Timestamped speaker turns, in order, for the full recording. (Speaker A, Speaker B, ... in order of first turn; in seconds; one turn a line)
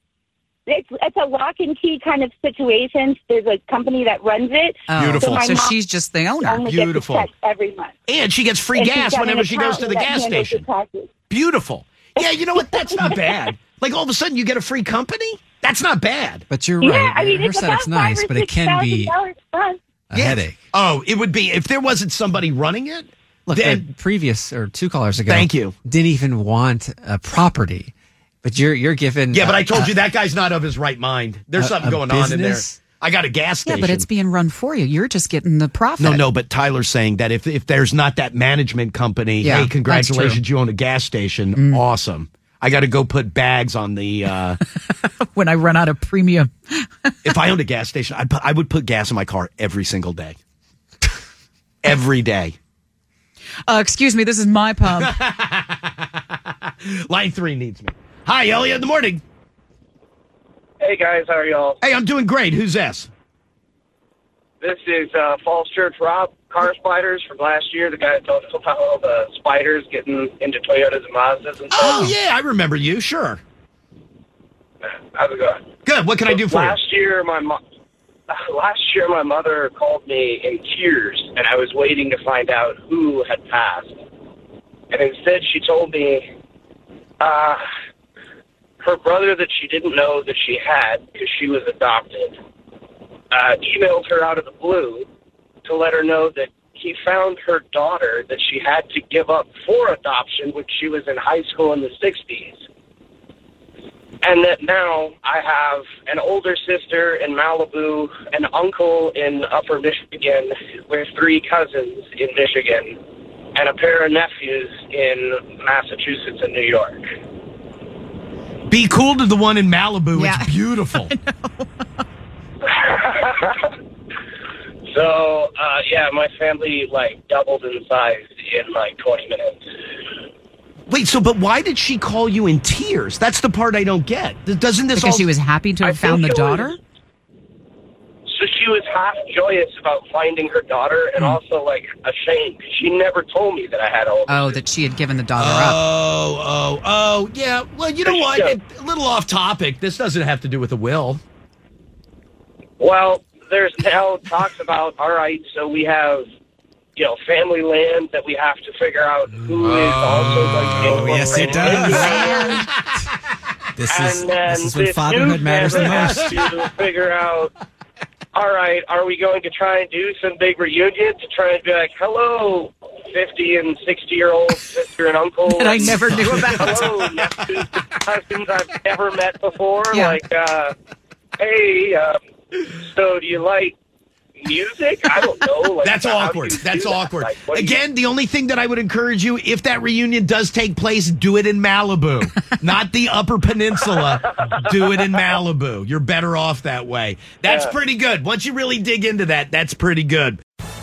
Speaker A: 0.7-5.8
Speaker B: 4.9-6.6
Speaker C: 4.9-5.7
Speaker A: 6.4-7.9
Speaker C: 6.7-7.3
Speaker C: 8.1-10.6
Speaker A: 8.7-11.1
Speaker C: 11.3-16.4
Speaker A: 12.2-13.5
Speaker D: 16.5-19.1
Speaker A: 16.8-19.8
Speaker D: 20.1-20.7
Speaker C: 20.1-23.8
Speaker D: 23.5-27.9
Speaker C: 25.3-25.7
Speaker D: 28.4-29.9
Speaker C: 29.3-34.1
Speaker D: 31.6-32.8
Speaker B: 33.6-36.2
Speaker C: 36.0-44.6
Speaker B: 39.4-40.4
Speaker B: 41.5-41.8
Speaker B: 44.9-46.9
Speaker C: 47.2-50.4
Speaker C: 51.8-52.5
Speaker B: 53.7-55.2
Speaker C: 55.0-55.9
Speaker C: 56.8-59.2
Speaker E: 60.8-61.8
Speaker C: 61.8-63.1
Speaker E: 64.6-72.2
Speaker C: 71.7-73.4
Speaker E: 75.1-75.7
Speaker C: 75.8-76.8
Speaker E: 76.2-77.6
Speaker E: 78.3-84.0
Speaker E: 84.9-86.2
Speaker E: 87.2-87.6
Speaker E: 88.8-92.4
Speaker E: 93.3-95.1
Speaker E: 95.6-102.6
Speaker E: 104.2-113.0
Speaker E: 113.5-117.1
Speaker C: 118.7-121.1
Speaker B: 120.1-121.9
Speaker E: 122.6-123.7
Speaker E: 124.9-129.6
Speaker C: 130.9-135.3
Speaker B: 134.9-136.8
Speaker E: 135.8-136.8
Speaker E: 138.3-144.6
Speaker B: 144.3-145.8
Speaker C: 145.4-151.2
Speaker E: 148.0-148.6
Speaker E: 152.8-156.3
Speaker E: 156.9-162.5
Speaker C: 159.6-161.8
Speaker D: 160.1-162.6
Speaker D: 163.8-166.3
Speaker E: 163.8-167.5
Speaker C: 165.9-166.4
Speaker E: 168.3-180.7
Speaker B: 175.4-176.8
Speaker C: 176.2-176.8
Speaker B: 179.9-180.2
Speaker E: 181.4-183.8
Speaker E: 184.4-187.8
Speaker C: 185.8-200.4
Speaker E: 197.4-197.7